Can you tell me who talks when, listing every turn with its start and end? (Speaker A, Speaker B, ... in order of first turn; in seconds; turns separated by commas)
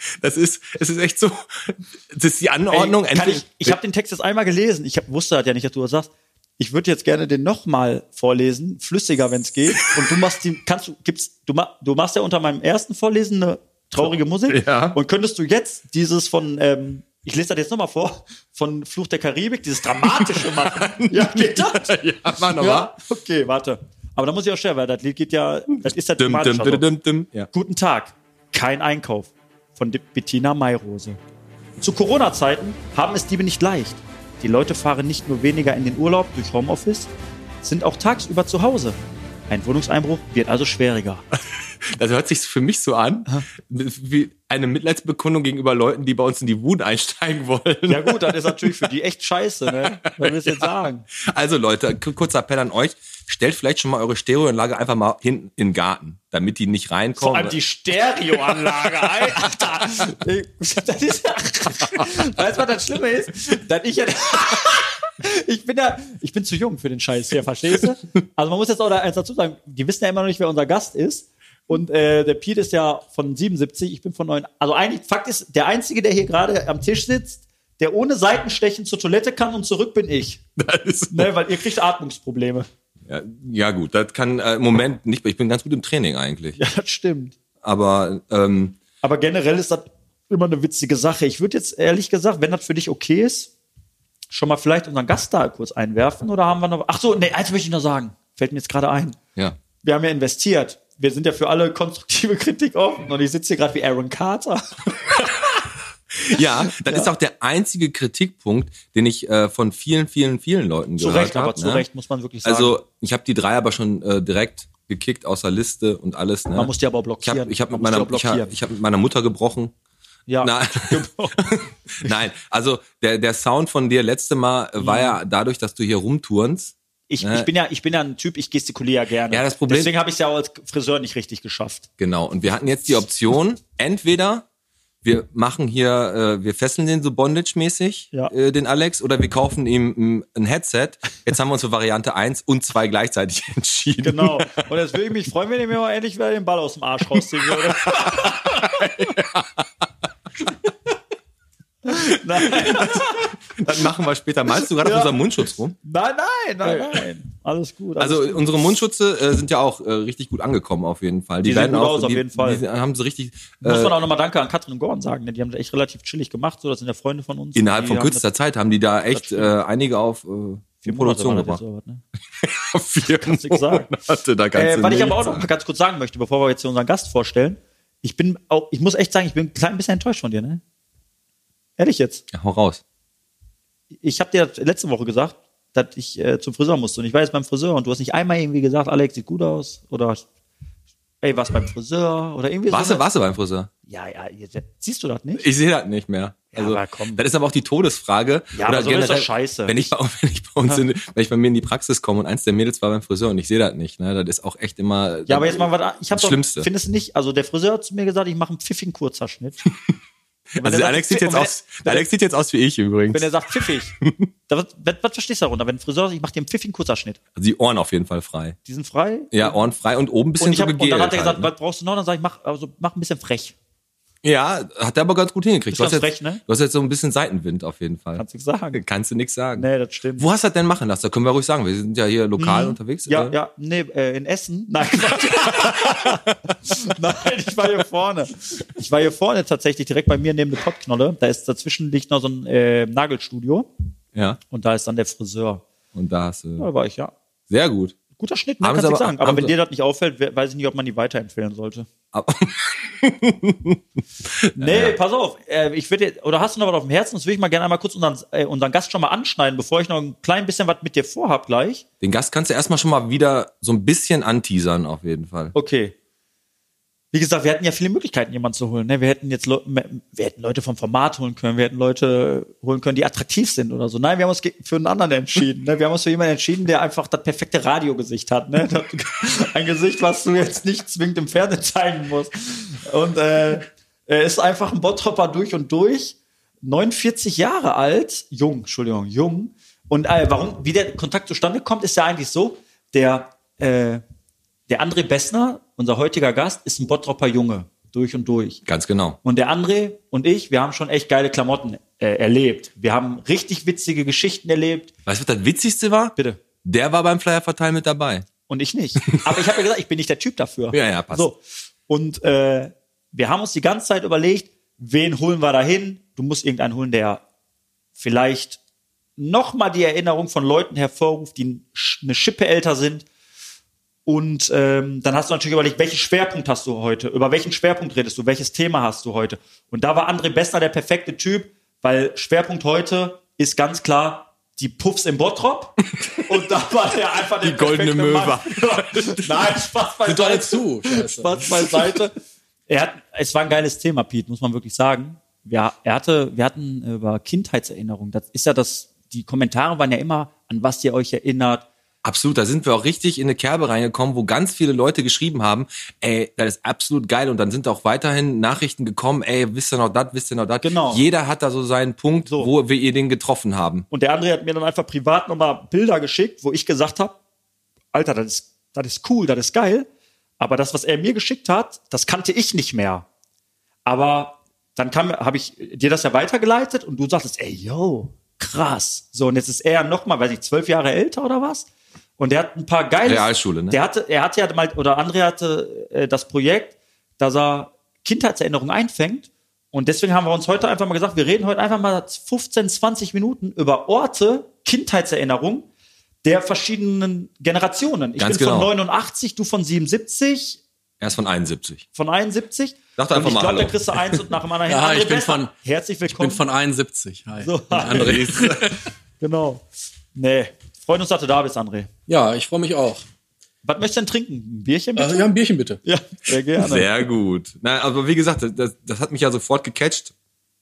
Speaker A: 0.2-3.8, Speaker B: 2.7-21.9, Speaker A: 9.8-10.0, Speaker A: 14.5-15.0, Speaker A: 20.1-22.9, Speaker B: 22.5-26.9, Speaker A: 25.8-27.5, Speaker B: 27.5-31.2, Speaker B: 31.8-37.1, Speaker B: 37.6-39.0, Speaker B: 39.5-41.2, Speaker A: 41.8-48.8, Speaker B: 47.9-51.0, Speaker A: 50.2-50.5, Speaker A: 51.2-57.6, Speaker B: 57.2-80.4, Speaker A: 58.6-59.4, Speaker A: 80.6-81.3, Speaker B: 81.1-82.7, Speaker A: 83.1-86.6, Speaker B: 86.6-87.3, Speaker A: 87.6-88.8, Speaker B: 89.0-93.5, Speaker B: 94.3-99.2, Speaker B: 99.8-104.9, Speaker A: 106.1-111.8, Speaker B: 106.7-107.1, Speaker B: 111.0-112.8, Speaker A: 112.4-119.7, Speaker B: 116.5-118.5, Speaker B: 120.3-122.1, Speaker A: 120.4-127.5, Speaker B: 124.8-125.2, Speaker B: 127.1-131.9, Speaker A: 129.3-129.9, Speaker A: 132.0-134.4, Speaker A: 135.0-144.5, Speaker B: 144.0-148.9, Speaker A: 147.4-149.6, Speaker B: 151.8-153.4, Speaker A: 152.4-155.8, Speaker B: 154.8-155.2, Speaker B: 155.8-158.5, Speaker A: 156.7-157.0, Speaker A: 158.0-163.9, Speaker B: 161.4-162.6, Speaker B: 163.6-168.2, Speaker A: 167.5-171.6, Speaker B: 169.1-169.5, Speaker B: 170.8-172.0, Speaker A: 172.4-175.5, Speaker B: 173.1-173.9, Speaker B: 174.5-180.6, Speaker B: 181.8-182.2, Speaker A: 182.3-182.8, Speaker B: 184.0-190.2, Speaker B: 191.2-193.0, Speaker A: 192.7-193.7, Speaker B: 193.9-195.4, Speaker A: 195.3-206.7, Speaker B: 196.5-197.2, Speaker B: 198.5-199.9, Speaker B: 205.3-209.6, Speaker A: 209.7-209.9, Speaker A: 210.5-213.3, Speaker B: 210.6-212.1, Speaker B: 213.1-213.9, Speaker A: 214.0-214.3, Speaker B: 214.5-217.2, Speaker A: 217.3-218.6, Speaker B: 218.6-219.6, Speaker A: 219.3-221.5, Speaker B: 220.4-223.5, Speaker A: 224.2-233.3, Speaker B: 225.7-226.4, Speaker B: 228.2-228.8, Speaker B: 229.6-230.2, Speaker B: 232.4-243.7, Speaker A: 235.6-236.2, Speaker A: 244.1-244.4, Speaker B: 244.5-245.6, Speaker A: 245.9-246.7, Speaker B: 246.6-247.1, Speaker A: 247.5-248.0, Speaker B: 248.2-251.9, Speaker A: 248.6-249.5, Speaker A: 252.1-255.0, Speaker B: 254.6-261.8, Speaker A: 262.0-265.5, Speaker B: 265.5-265.9, Speaker B: 267.1-294.0, Speaker B: 294.7-298.6, Speaker A: 298.6-299.2, Speaker B: 299.2-304.9, Speaker A: 305.1-308.2, Speaker B: 306.1-306.4, Speaker B: 308.5-317.2, Speaker A: 310.7-311.3, Speaker B: 318.0-318.6, Speaker B: 319.2-323.1, Speaker B: 324.1-342.1, Speaker A: 336.0-336.2, Speaker A: 337.4-339.6, Speaker C: 340.1-341.4, Speaker B: 342.7-351.6, Speaker A: 352.0-363.9, Speaker B: 360.6-361.0, Speaker B: 362.2-362.5, Speaker B: 363.9-367.2, Speaker B: 367.9-369.9, Speaker B: 370.4-373.1, Speaker B: 373.9-395.7, Speaker A: 383.0-383.8, Speaker B: 396.2-400.6, Speaker A: 398.2-398.7, Speaker A: 401.0-401.8, Speaker B: 401.9-406.4, Speaker A: 403.0-404.2, Speaker C: 404.7-405.5, Speaker C: 406.1-408.8, Speaker B: 407.4-408.5, Speaker A: 407.9-408.8, Speaker B: 409.2-409.6, Speaker B: 410.1-411.9, Speaker C: 412.1-413.0, Speaker B: 413.6-415.3, Speaker C: 414.9-415.8, Speaker B: 415.8-416.9, Speaker A: 416.6-420.1